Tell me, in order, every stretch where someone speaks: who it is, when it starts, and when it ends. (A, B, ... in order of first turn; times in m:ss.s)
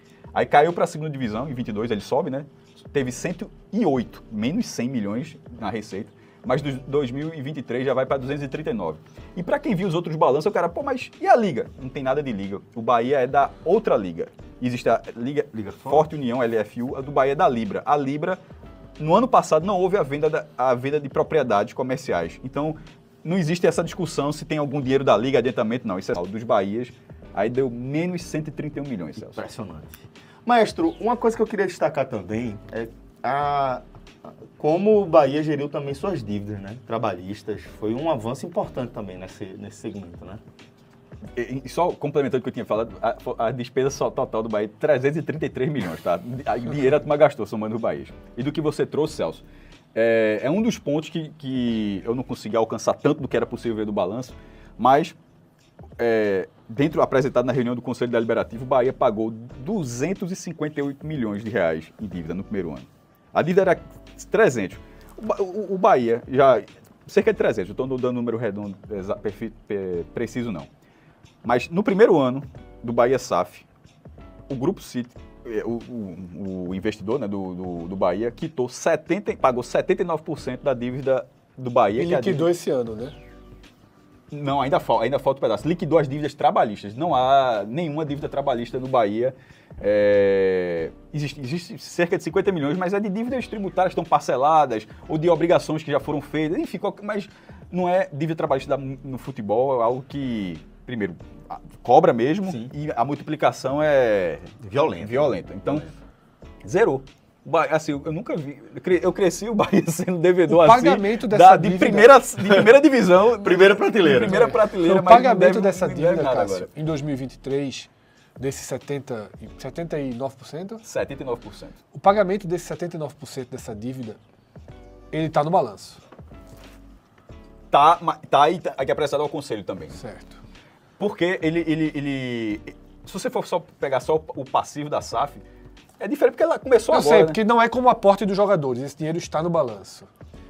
0:00.3-0:18.4 A
0:15.5-0:16.1 B
0:19.0-0:29.4 A
0:29.2-0:40.4 B
0:41.4-0:49.4 A
0:49.9-0:55.2 A
0:56.0-1:10.7 A
1:11.4-1:13.6 A
1:14.5-1:22.5 A
1:22.0-1:23.2 C
1:24.3-1:45.8 A
1:44.6-1:45.9 B
1:46.6-1:56.7 A
1:50.5-1:52.1 C
1:52.4-1:52.7 B
1:53.4-1:54.6 B
1:54.7-2:00.8 C
2:00.8-2:01.8 A
2:01.9-2:04.2 C
2:05.1-2:06.0 C
2:07.7-2:10.0 A
2:09.9-2:10.4 C
2:11.0-2:15.4 A
2:16.0-2:17.4 A
2:16.9-2:20.1 C